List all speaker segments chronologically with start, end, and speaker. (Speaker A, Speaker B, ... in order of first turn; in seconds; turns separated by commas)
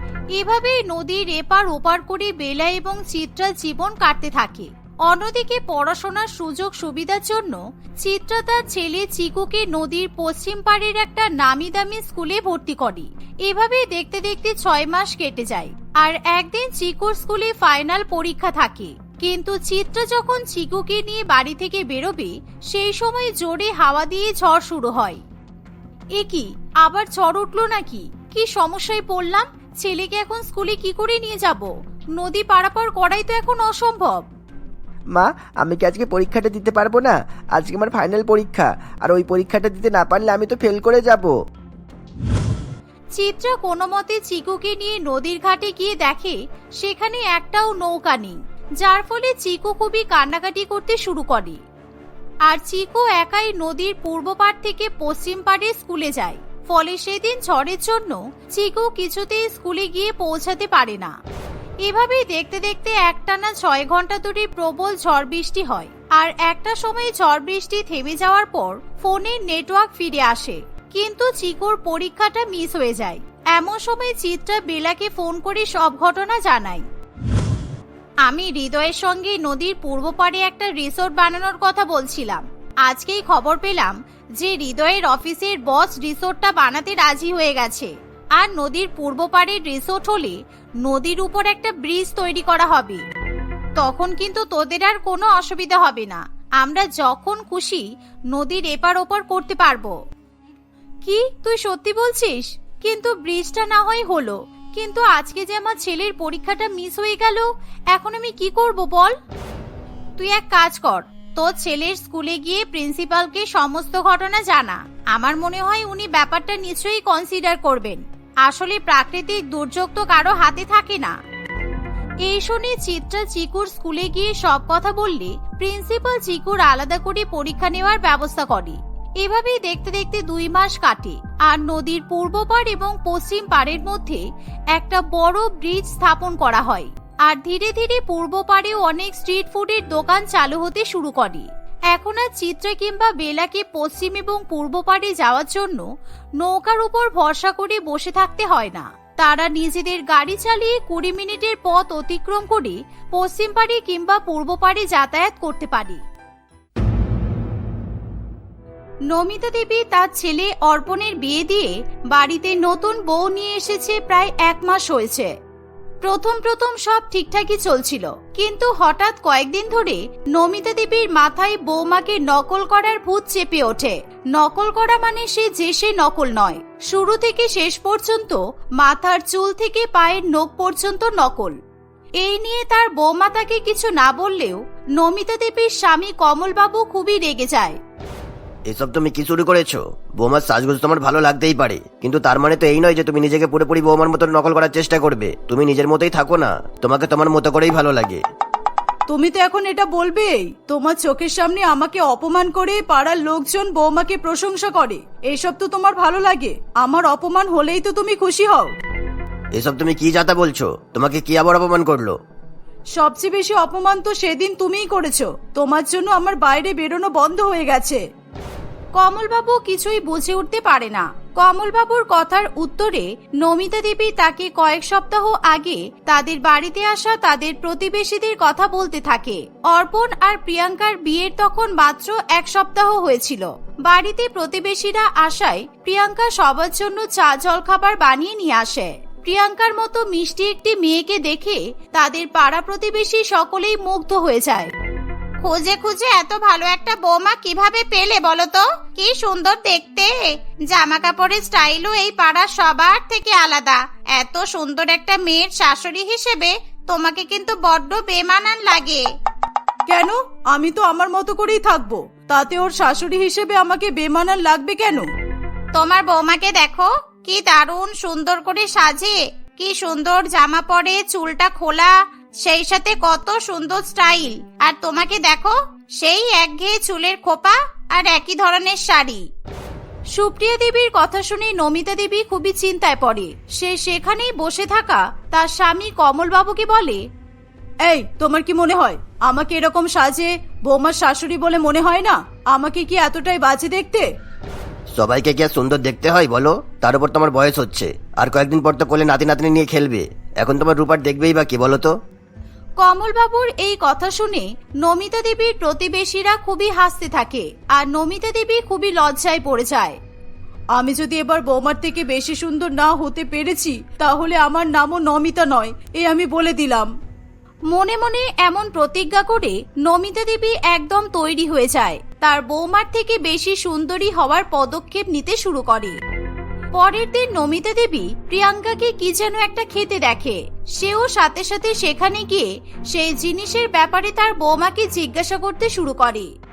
Speaker A: 0.3-25.2, Speaker A: 26.1-34.2, Speaker B: 35.1-41.3, Speaker A: 43.1-51.6, Speaker A: 52.4-61.1, Speaker A: 61.8-76.8, Speaker A: 78.2-93.0, Speaker A: 93.8-100.0, Speaker A: 101.0-109.1, Speaker A: 110.2-121.2, Speaker A: 122.2-156.0, Speaker A: 159.1-165.3, Speaker A: 166.0-181.6, Speaker A: 182.2-187.8, Speaker C: 188.7-198.2, Speaker D: 199.1-208.7, Speaker C: 209.5-212.2, Speaker D: 212.9-218.0, Speaker A: 218.9-244.7, Speaker A: 245.4-259.0, Speaker D: 259.9-265.1, Speaker A: 265.7-279.2, Speaker A: 280.1-287.1, Speaker D: 287.8-294.1, Speaker C: 294.9-301.9, Speaker A: 302.8-310.0, Speaker D: 310.7-316.9, Speaker A: 317.7-326.0, Speaker A: 326.7-336.3